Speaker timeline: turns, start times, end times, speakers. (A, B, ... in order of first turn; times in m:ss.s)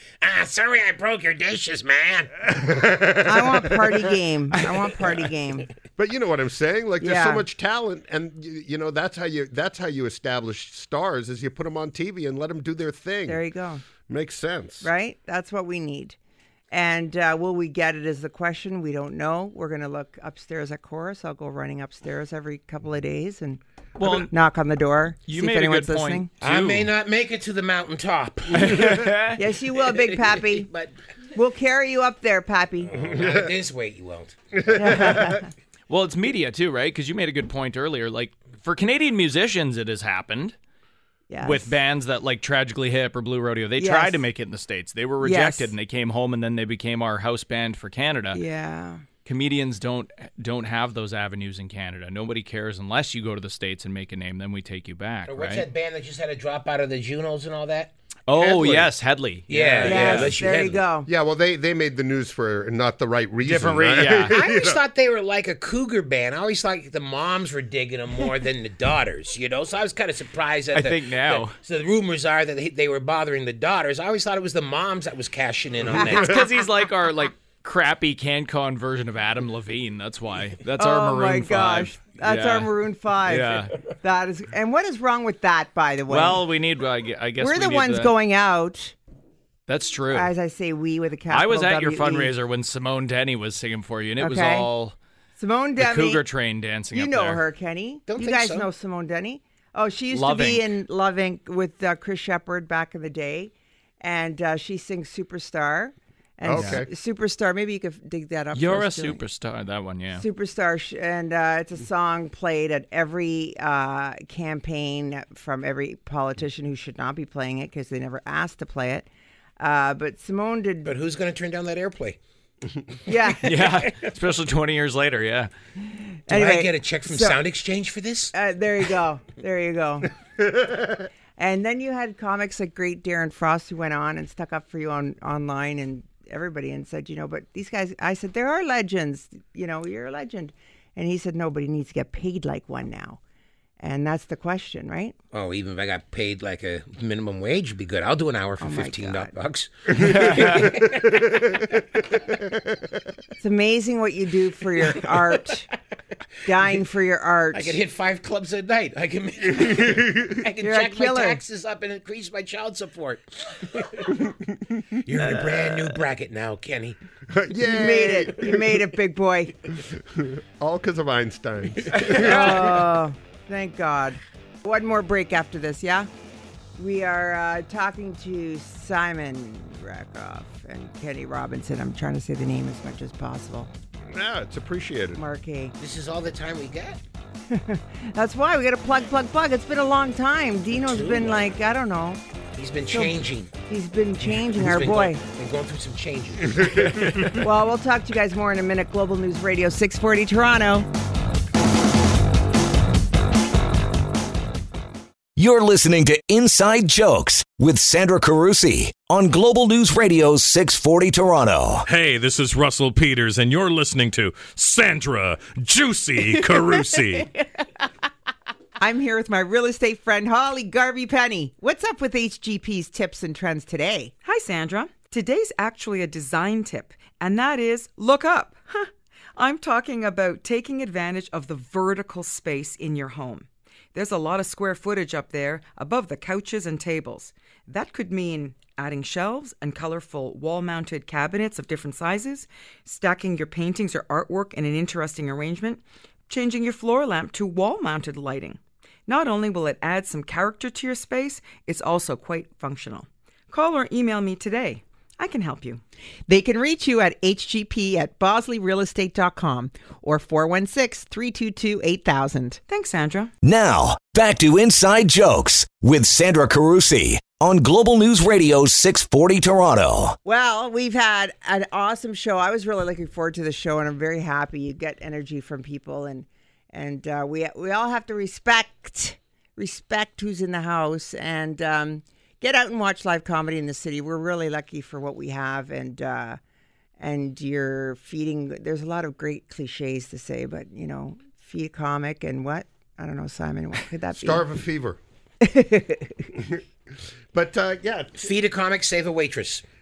0:00.2-0:02.3 A
0:02.5-0:03.9 B
0:03.2-0:05.7 C
0:06.0-0:13.4 B
0:07.0-0:07.4 C
0:13.3-0:13.8 C
0:14.1-0:14.9 B
0:14.8-0:16.2 C
0:16.7-0:26.3 C
0:24.0-0:24.3 D
0:25.2-0:26.9 D
0:26.4-0:29.1 A
0:28.5-0:29.4 D
0:29.4-0:30.7 C
0:29.9-0:30.9 A
0:31.3-0:32.9 C
0:32.9-0:34.6 A
0:33.0-0:33.5 B
0:34.6-0:35.4 B
0:34.7-0:35.5 C
0:35.9-0:40.6 D
0:41.3-0:41.7 C
0:41.4-0:48.4 D
0:43.8-0:44.2 C
0:45.2-0:45.7 C
0:48.3-0:49.0 C
0:49.2-0:55.6 D
0:55.3-0:58.9 A
0:58.3-1:00.3 D
0:59.5-1:00.8 A
0:59.8-1:01.1 C
1:01.0-1:04.8 B
1:03.4-1:04.4 D
1:04.2-1:16.4 A
1:10.7-1:11.5 D
1:16.0-1:22.7 D
1:20.8-1:26.4 C
1:23.2-1:23.8 D
1:26.1-1:28.1 D
1:27.4-1:28.9 C
1:29.7-1:30.3 D
1:30.1-1:32.3 C
1:31.3-1:34.9 D
1:34.2-1:34.7 C
1:35.4-1:36.2 C
1:35.8-1:37.4 D
1:36.9-1:49.2 C
1:38.1-1:38.7 A
1:40.1-1:40.7 D
1:46.4-1:46.9 B
1:46.5-1:46.8 D
1:48.5-1:50.2 D
1:50.2-1:59.1 C
1:59.6-2:00.9 C
2:00.8-2:02.2 A
2:03.0-2:03.6 C
2:03.4-2:05.5 D
2:06.3-2:07.4 C
2:06.3-2:08.3 A
2:08.3-2:10.1 C
2:11.4-2:23.2 C
2:23.8-2:25.1 C
2:25.3-2:31.6 A
2:28.6-2:29.3 C
2:30.0-2:30.7 D
2:30.6-2:31.8 B
2:32.4-2:32.8 B
2:33.4-2:35.7 C
2:36.4-2:37.8 C
2:37.5-2:44.2 A
2:39.6-2:40.3 B
2:40.6-2:41.4 C
2:45.0-2:47.0 A
2:47.3-2:48.8 B
2:47.6-2:49.5 C
2:49.7-2:52.9 B
2:52.1-2:56.1 C
2:56.8-3:03.7 C
3:04.1-3:05.2 B
3:05.2-3:05.7 C
3:05.8-3:07.0 A
3:07.5-3:12.2 C
3:10.8-3:11.4 A
3:12.6-3:13.5 A
3:12.9-3:13.2 C
3:13.7-3:15.2 C
3:14.5-3:17.0 A
3:17.2-3:20.9 C
3:25.4-3:31.8 E
3:31.8-3:37.3 F
3:38.8-3:44.1 C
3:44.2-4:15.8 G
4:16.3-4:22.6 C
4:22.7-4:23.3 G
4:23.4-4:30.2 E
4:30.2-4:46.4 C
4:47.0-4:54.4 C
4:54.1-4:55.0 B
4:55.4-4:56.2 C
4:56.3-4:56.6 B
4:57.3-4:58.3 B
4:58.2-4:59.6 A